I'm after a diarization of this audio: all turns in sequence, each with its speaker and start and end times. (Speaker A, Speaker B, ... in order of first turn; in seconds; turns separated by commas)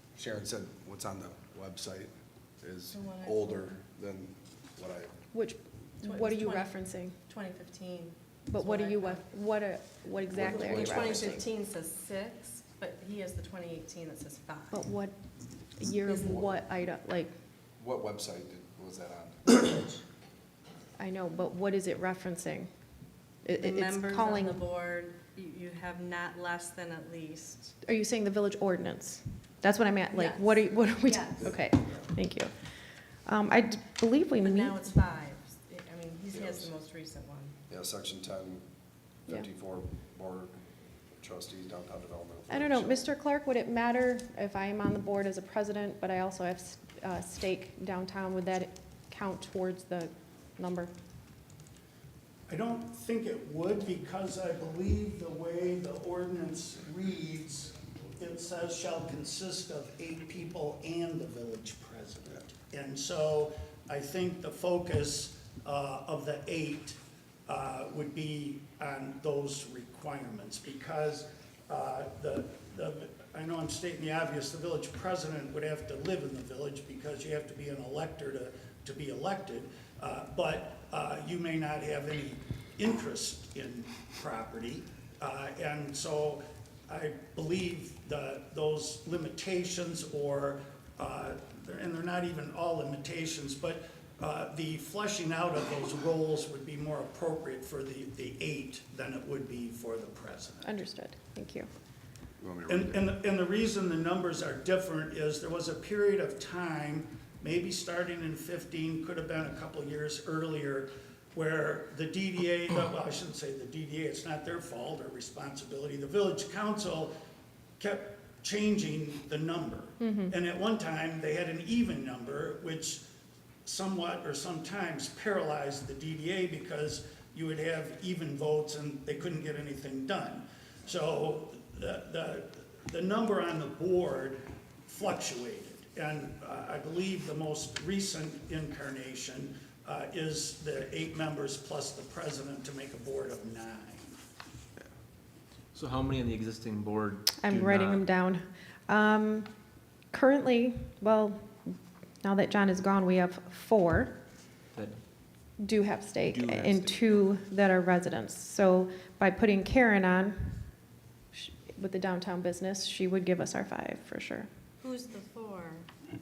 Speaker A: 0.2-5.1, Speaker B: 2.9-3.8, Speaker C: 5.3-7.2, Speaker B: 6.0-6.7, Speaker B: 7.3-9.2, Speaker C: 8.5-11.4, Speaker A: 10.3-11.5, Speaker B: 10.4-14.8, Speaker C: 14.7-15.2, Speaker C: 15.8-17.3, Speaker A: 16.1-16.6, Speaker A: 17.8-20.0, Speaker C: 21.0-22.7, Speaker C: 23.4-24.6, Speaker B: 23.6-27.7, Speaker C: 27.9-32.5, Speaker B: 30.1-31.5, Speaker C: 33.3-34.8, Speaker B: 34.4-37.5, Speaker A: 36.3-36.7, Speaker A: 37.7-38.6, Speaker A: 39.3-40.6, Speaker A: 41.1-43.0, Speaker C: 42.5-50.9, Speaker D: 52.5-100.7, Speaker C: 100.6-101.7, Speaker A: 102.4-103.1, Speaker D: 102.7-117.1, Speaker D: 117.8-123.1, Speaker C: 120.0-120.3, Speaker D: 123.7-144.2, Speaker E: 145.7-148.0, Speaker C: 147.4-149.5, Speaker C: 150.1-154.1, Speaker E: 154.7-155.0, Speaker C: 155.6-160.6, Speaker E: 156.2-157.1, Speaker C: 161.3-164.5, Speaker B: 164.8-165.9